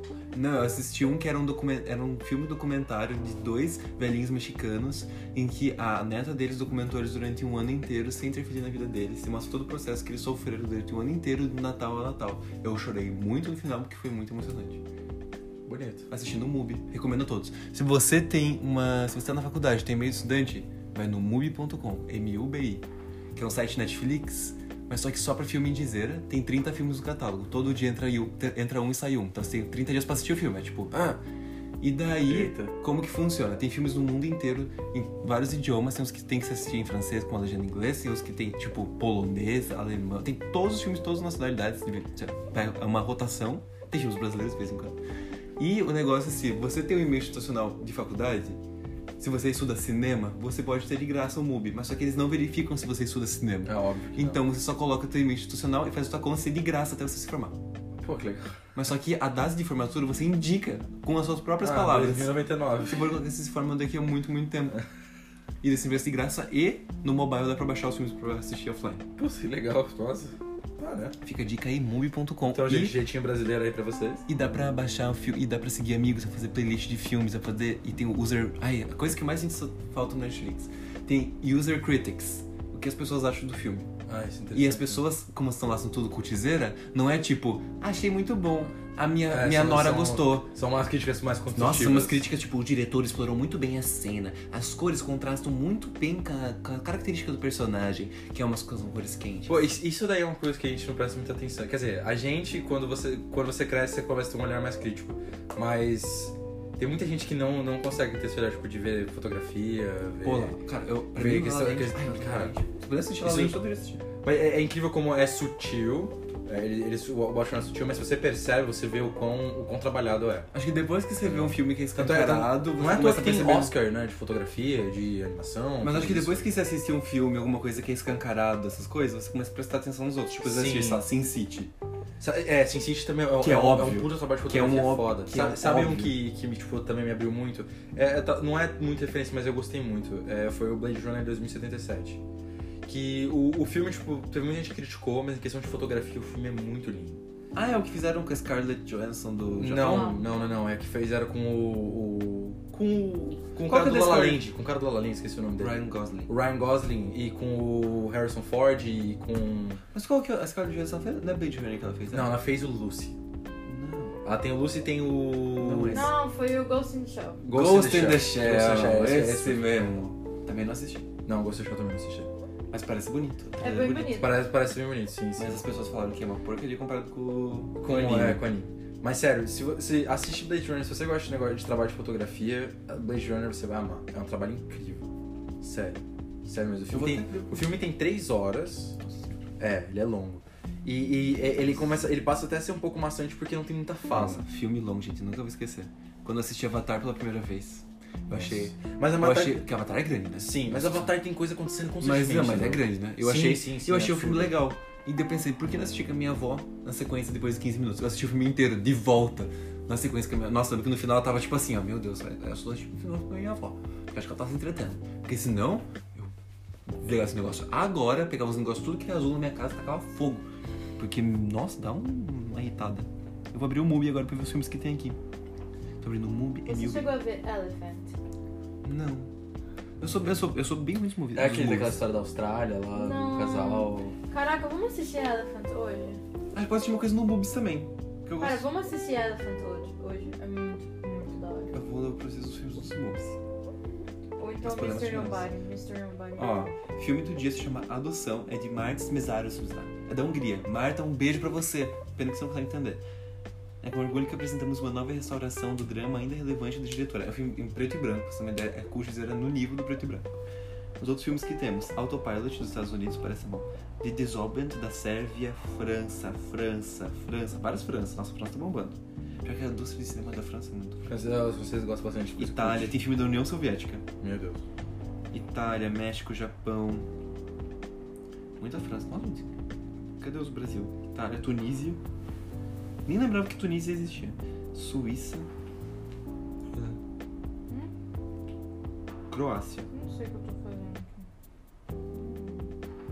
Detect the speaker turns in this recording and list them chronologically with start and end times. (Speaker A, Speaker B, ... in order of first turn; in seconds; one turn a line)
Speaker A: 0.3-14.8
Speaker B: 15.7-16.1
Speaker A: 16.1-31.2
Speaker A: 31.8-45.0
Speaker B: 32.2-32.7
Speaker A: 45.6-48.6
Speaker A: 49.2-57.5
Speaker B: 53.6-54.4
Speaker B: 58.0-58.6
Speaker A: 58.7-64.8
Speaker B: 61.6-63.1
Speaker A: 65.6-69.0
Speaker B: 69.2-71.1
Speaker A: 71.2-73.0
Speaker B: 72.5-74.2
Speaker A: 74.3-83.9
Speaker B: 84.1-85.0
Speaker A: 84.5-90.5
Speaker B: 89.3-92.2
Speaker A: 91.5-99.6
Speaker B: 99.5-110.6
Speaker A: 110.2-114.0
Speaker B: 111.1-112.5
Speaker B: 113.2-113.6
Speaker B: 114.2-120.5
Speaker A: 120.5-123.7
Speaker B: 121.2-126.5
Speaker A: 125.8-131.7
Speaker B: 130.3-131.0
Speaker B: 132.2-142.2
Speaker A: 133.4-136.2
Speaker B: 142.8-147.2
Speaker A: 147.5-150.2
Speaker B: 149.6-159.8
Speaker C: 149.8-150.4
Speaker A: 153.6-154.4
Speaker A: 155.6-156.3
Speaker A: 159.9-162.4
Speaker B: 162.1-163.2
Speaker A: 163.7-164.2
Speaker B: 164.2-166.1
Speaker A: 165.6-166.1
Speaker C: 165.9-167.4
Speaker B: 167.4-169.7
Speaker A: 167.5-171.1
Speaker B: 171.2-172.3
Speaker A: 172.7-174.2
Speaker C: 173.6-174.3
Speaker B: 174.1-175.6
Speaker A: 175.4-178.4
Speaker B: 177.8-185.1
Speaker B: 185.6-189.0
Speaker A: 186.9-187.7
Speaker A: 189.0-189.4
Speaker B: 189.6-194.4
Speaker A: 194.1-201.1
Speaker B: 198.3-199.7
Speaker B: 200.4-204.6
Speaker A: 202.0-216.3
Speaker A: 216.9-220.5
Speaker A: 221.0-225.2
Speaker A: 226.0-227.1
Speaker C: 226.7-228.1
Speaker A: 228.8-229.3
Speaker A: 230.0-232.0
Speaker B: 231.3-234.1
Speaker C: 232.9-236.2
Speaker A: 236.5-238.6
Speaker C: 238.4-241.7
Speaker A: 241.7-243.4
Speaker C: 244.4-246.8
Speaker A: 244.6-245.4
Speaker A: 246.4-253.0
Speaker A: 253.8-260.3
Speaker A: 261.0-271.1
Speaker B: 271.1-273.0
Speaker A: 272.4-274.0
Speaker B: 274.2-274.6
Speaker A: 275.3-277.1
Speaker A: 278.6-279.5
Speaker A: 280.2-282.0
Speaker A: 283.1-285.5
Speaker A: 289.3-289.9
Speaker C: 289.9-291.3
Speaker C: 292.1-292.7